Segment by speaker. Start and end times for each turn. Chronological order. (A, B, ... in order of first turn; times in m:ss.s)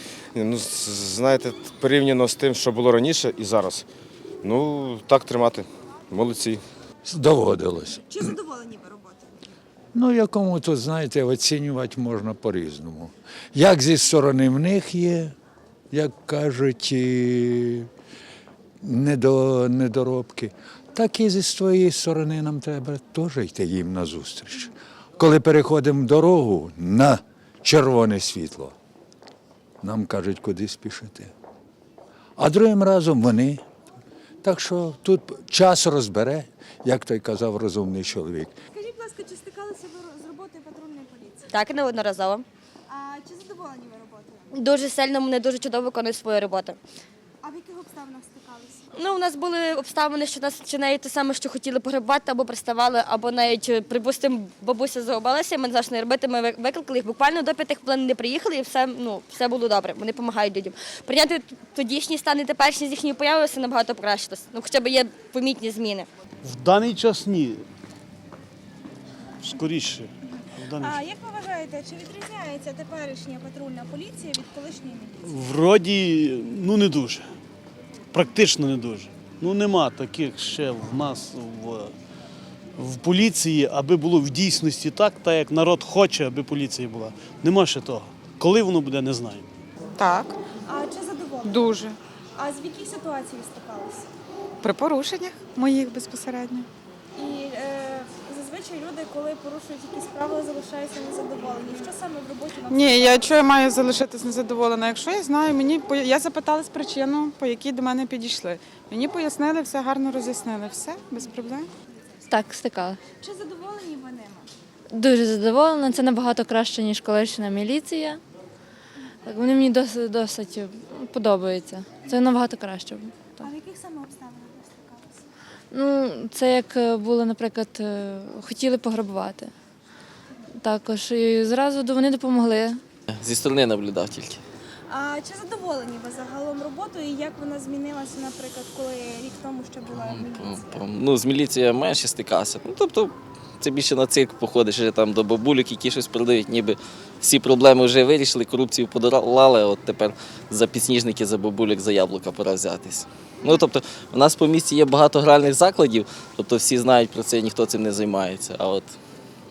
0:00.4-0:03.9 A
0:04.4-0:06.6 A
0:07.1-0:08.1 B
0:08.1-0:09.3 C
0:09.9-0:15.4 B
0:15.9-0:17.9 B
0:18.8-0:28.8 B
0:29.8-0:31.3 B
0:32.4-0:33.6 B
0:34.4-0:38.6 B
0:38.7-0:41.5 C
0:41.5-0:42.4 D
0:42.9-0:44.5 C
0:44.5-0:46.8 D
0:47.4-0:48.9 C
0:48.9-1:06.1 D
1:06.4-1:07.6 E
1:09.4-1:11.0 E
1:10.8-1:15.3 C
1:15.2-1:17.3 E
1:18.1-1:21.9 E
1:22.8-1:29.5 E
1:30.0-1:30.4 F
1:30.6-1:31.8 C
1:31.4-1:32.0 F
1:32.4-1:34.1 C
1:34.6-1:36.7 F
1:37.2-1:43.3 C
1:42.7-1:51.7 F
1:52.3-1:53.0 G
1:53.2-1:54.5 C
1:54.9-1:58.2 G
1:59.3-2:03.5 G
2:03.4-2:05.2 C
2:05.7-2:09.5 G
2:10.6-2:12.8 G
2:13.1-2:14.4 H
2:14.9-2:20.8 C
2:19.9-2:39.0 H